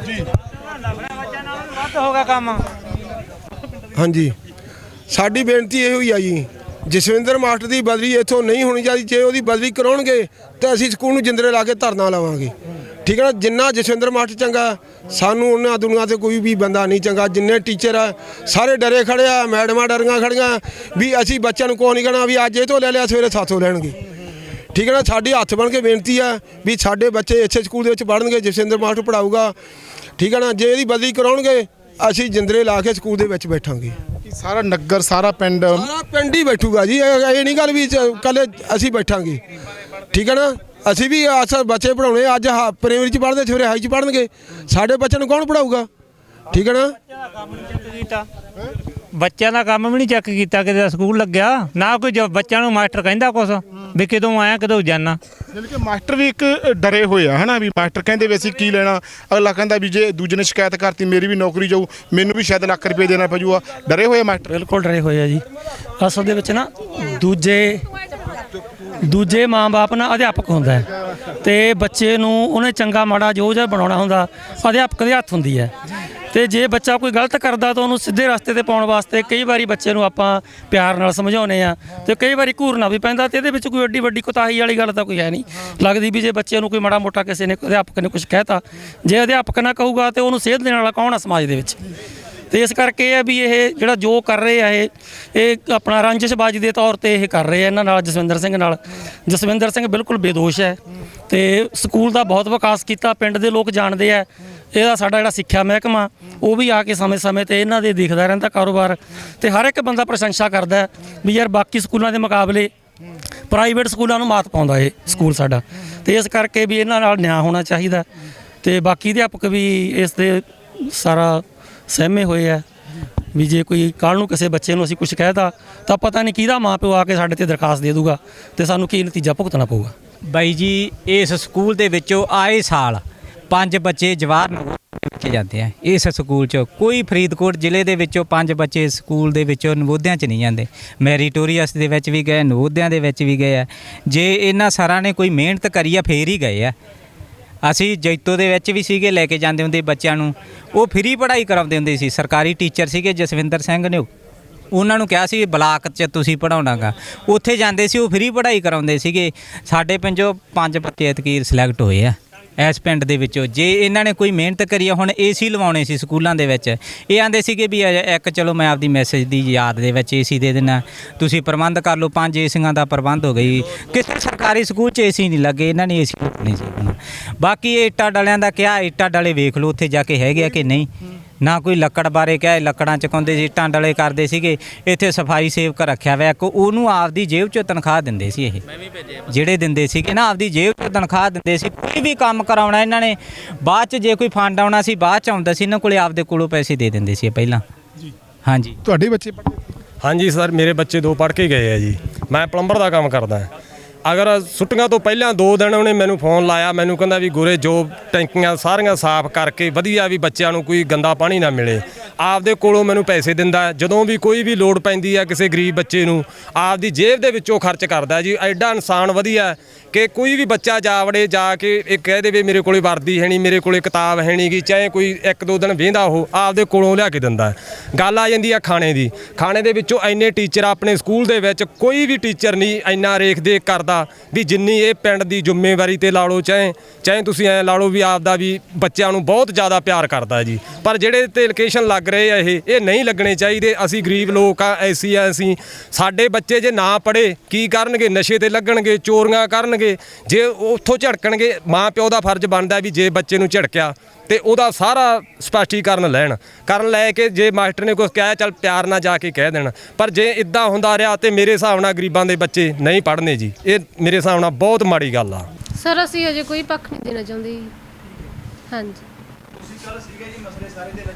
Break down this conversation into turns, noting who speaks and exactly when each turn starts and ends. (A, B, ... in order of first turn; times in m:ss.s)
0:01.6-0:02.6 A
0:03.9-0:04.3 B
0:05.1-0:12.5 B
0:13.0-0:23.9 B
0:24.7-0:29.5 B
0:30.2-0:34.0 B
0:34.2-0:35.9 C
0:35.7-0:39.4 B
0:40.1-0:45.9 B
0:46.5-0:46.9 B
0:47.5-0:48.2 A
0:49.1-0:55.2 A
0:55.5-1:04.5 C
1:04.5-1:05.4 D
1:06.0-1:07.8 D
1:09.0-1:10.9 D
1:11.4-1:15.7 D
1:16.3-1:31.8 D
1:32.5-1:52.7 D
1:53.5-1:58.0 D
1:58.6-2:02.6 D
2:03.3-2:09.9 D
2:10.3-2:26.7 E
2:27.6-2:34.1 E
2:34.7-3:00.9 E
3:01.4-3:08.6 E
3:09.3-3:17.6 E
3:18.4-3:18.8 E
3:18.8-3:19.6 C
3:20.0-3:23.5 F
3:24.0-4:25.5 F
4:25.8-4:27.7 G
4:28.7-4:29.0 G